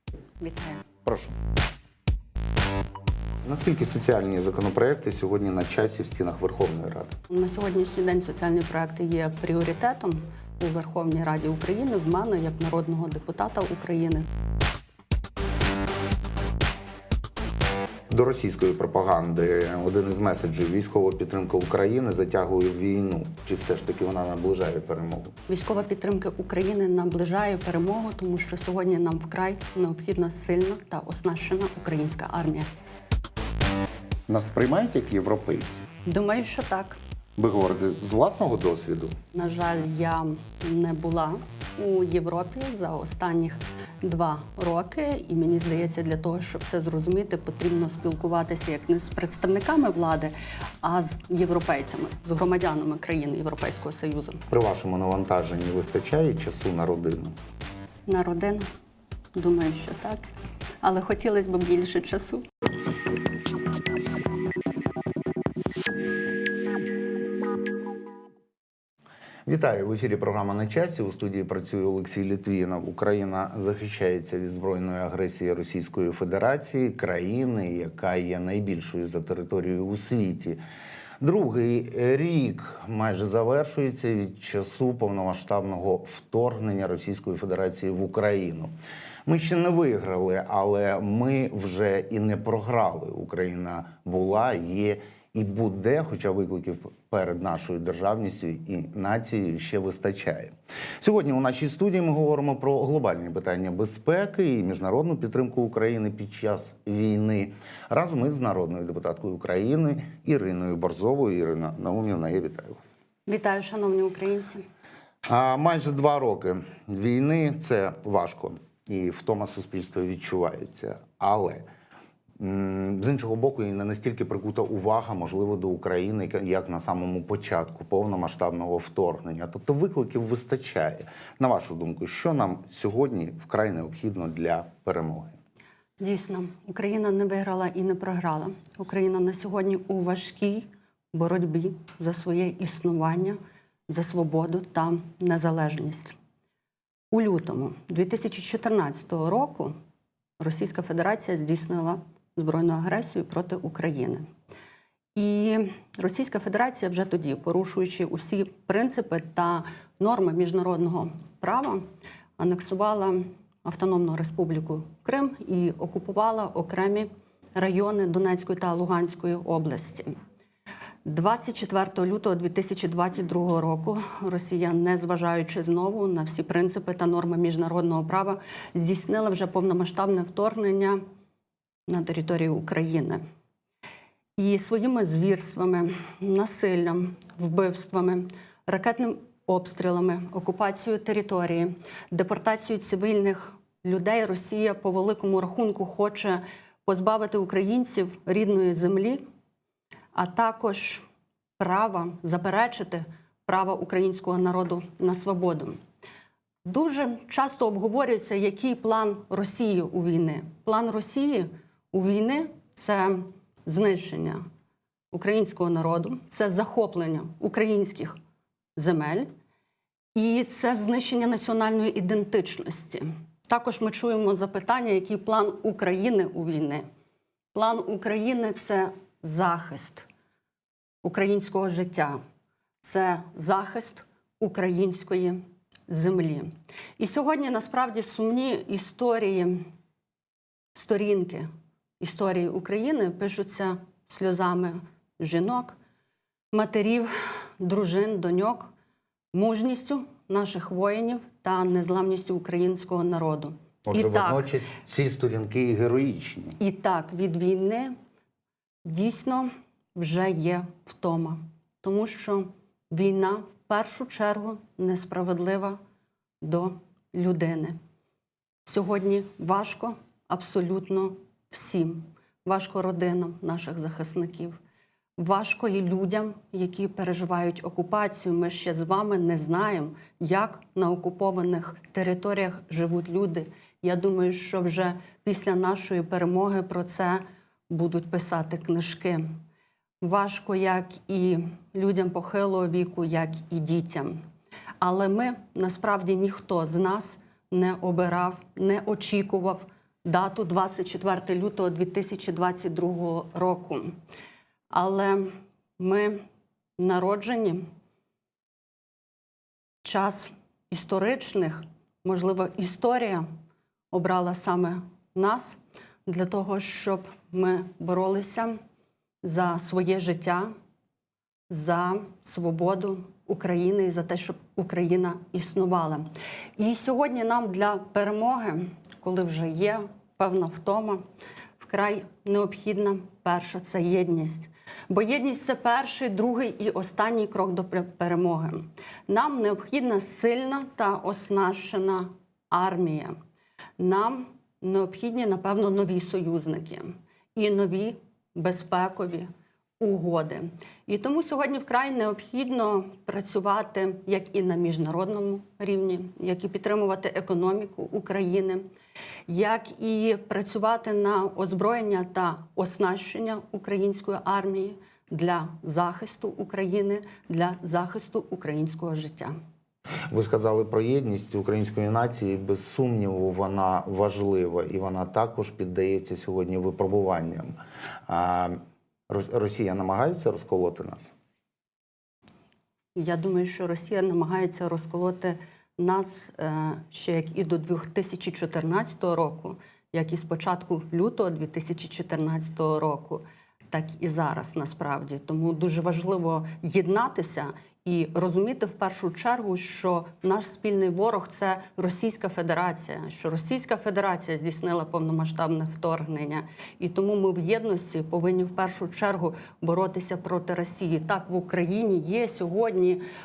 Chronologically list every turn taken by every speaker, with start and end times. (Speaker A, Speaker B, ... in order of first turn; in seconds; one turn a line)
Speaker A: 0.4-0.8
Speaker B: 1.1-1.4
Speaker B: 3.5-7.1
Speaker A: 7.3-14.3
Speaker B: 18.1-25.3
Speaker A: 25.5-32.7
Speaker B: 34.3-35.9
Speaker A: 36.0-37.0
Speaker B: 37.4-39.1
Speaker A: 39.3-54.4
Speaker B: 54.5-57.4
Speaker A: 58.1-58.6
Speaker A: 59.4-60.3
Speaker A: 60.8-62.5
Speaker B: 69.5-80.6
Speaker B: 81.2-88.7
Speaker B: 89.3-112.9
Speaker A: 113.3-114.6
Speaker B: 115.3-121.7
Speaker B: 122.4-135.4
Speaker A: 136.0-143.4
Speaker A: 143.9-146.2
Speaker A: 147.1-149.7
Speaker A: 150.4-154.2
Speaker A: 155.2-161.8
Speaker A: 162.4-170.1
Speaker A: 171.1-181.0
Speaker A: 181.9-183.2
Speaker A: 184.4-199.2
Speaker A: 200.1-201.0
Speaker A: 201.6-205.8
Speaker A: 206.7-214.4
Speaker A: 215.1-218.2
Speaker A: 218.8-219.3
Speaker A: 220.2-226.8
Speaker A: 227.5-230.1
Speaker A: 231.0-232.2
Speaker A: 232.8-239.7
Speaker A: 240.7-241.5
Speaker A: 242.0-245.8
Speaker A: 246.5-248.7
Speaker A: 249.3-254.5
Speaker B: 253.9-256.6
Speaker A: 256.6-257.9
Speaker A: 258.9-265.8
Speaker A: 266.4-267.8
Speaker A: 268.6-274.6
Speaker A: 275.2-289.2
Speaker A: 290.0-294.2
Speaker A: 294.8-304.0
Speaker A: 304.7-306.2
Speaker A: 306.8-307.6
Speaker A: 309.8-313.2
Speaker A: 313.9-318.6
Speaker A: 319.2-320.5
Speaker A: 321.5-331.0
Speaker A: 331.6-343.1
Speaker A: 343.8-349.3
Speaker A: 349.8-358.6
Speaker A: 359.3-369.3
Speaker B: 370.1-377.5
Speaker B: 378.1-378.6
Speaker B: 379.1-381.1
Speaker A: 383.0-413.0